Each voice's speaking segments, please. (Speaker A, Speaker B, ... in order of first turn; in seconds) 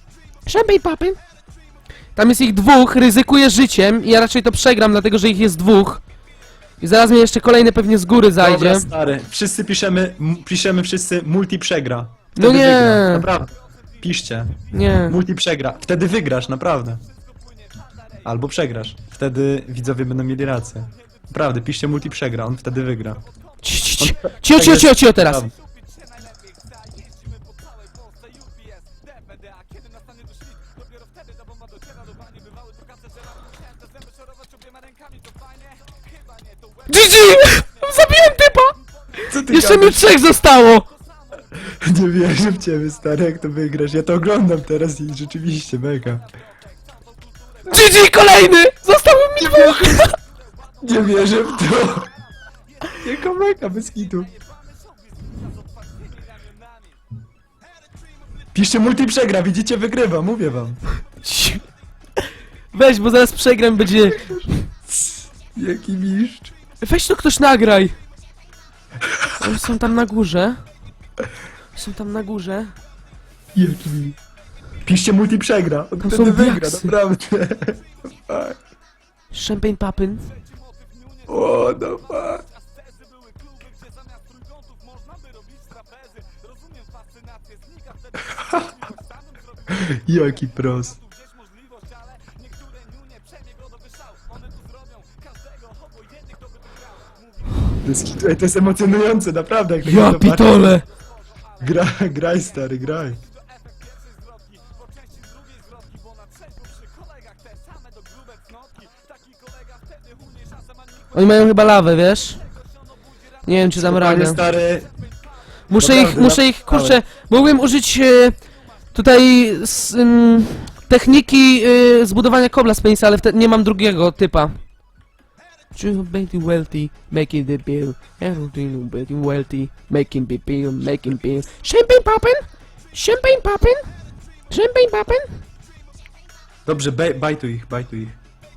Speaker A: 0.5-1.2, 2.1-6.0, 6.8-8.9, 12.3-13.3, 14.7-15.2, 23.6-25.4, 36.9-40.9, 47.7-50.1, 61.2-61.7, 62.7-64.7, 66.8-67.9, 69.4-70.7, 71.7-72.8, 76.0-76.9, 79.3-80.3, 99.8-100.8, 111.1-112.4, 113.4-114.4, 115.7-124.8, 125.7-133.9, 134.5-135.4
Speaker B: 8.4-14.6, 15.1-17.0, 18.2-23.2, 24.0-25.5, 39.3-40.0, 41.6-46.3, 49.4-50.0, 50.8-52.1, 53.0-54.3, 58.5-60.8, 64.0-66.5, 73.5-74.2, 74.8-78.6, 81.3-82.4, 88.3-88.7, 89.7-91.0, 97.8-100.7, 101.6-103.2, 113.8-114.9, 115.8-117.0, 136.7-138.2